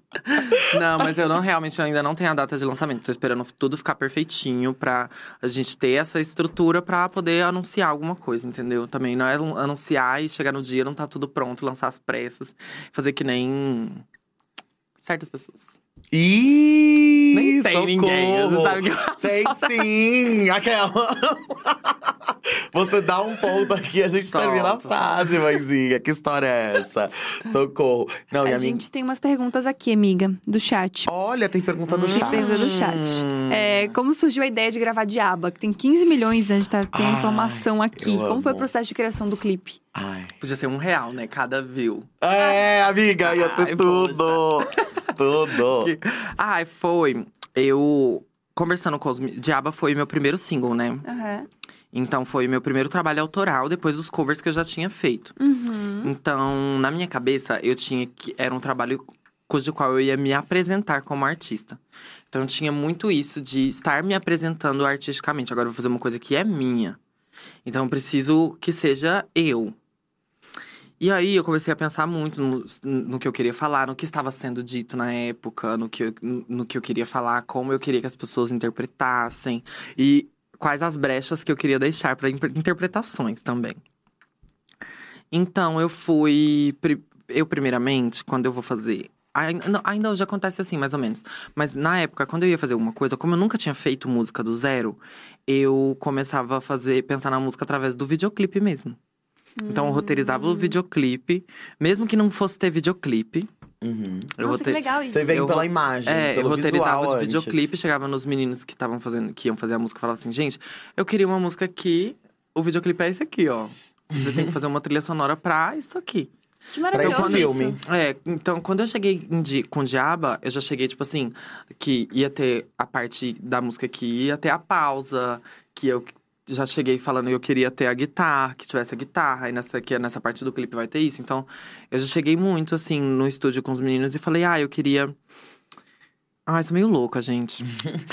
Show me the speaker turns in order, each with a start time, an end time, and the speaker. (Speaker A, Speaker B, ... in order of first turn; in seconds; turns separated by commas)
Speaker A: 0.2-14.0, Speaker A: 15.0-15.7, Speaker B: 16.1-28.8, Speaker A: 17.3-19.8, Speaker A: 24.3-25.6, Speaker C: 28.4-31.1, Speaker B: 31.1-33.9, Speaker A: 31.9-32.7, Speaker C: 32.1-39.8, Speaker B: 36.9-38.7, Speaker B: 39.9-40.3, Speaker A: 40.4-42.1, Speaker B: 42.2-45.9, Speaker A: 43.2-44.8, Speaker A: 45.6-51.0, Speaker C: 51.0-51.5, Speaker A: 51.9-55.3, Speaker C: 55.4-56.1, Speaker A: 56.0-61.8, Speaker A: 62.3-67.0, Speaker A: 67.6-69.7, Speaker A: 71.0-83.8, Speaker A: 85.3-99.0, Speaker C: 99.6-100.8, Speaker A: 99.7-103.5, Speaker B: 103.8-104.4, Speaker A: 104.4-116.3, Speaker C: 104.4-105.5, Speaker B: 105.1-107.7, Speaker B: 114.1-114.5, Speaker C: 116.7-117.8, Speaker B: 116.9-117.8, Speaker A: 116.9-135.1, Speaker A: 136.4-137.7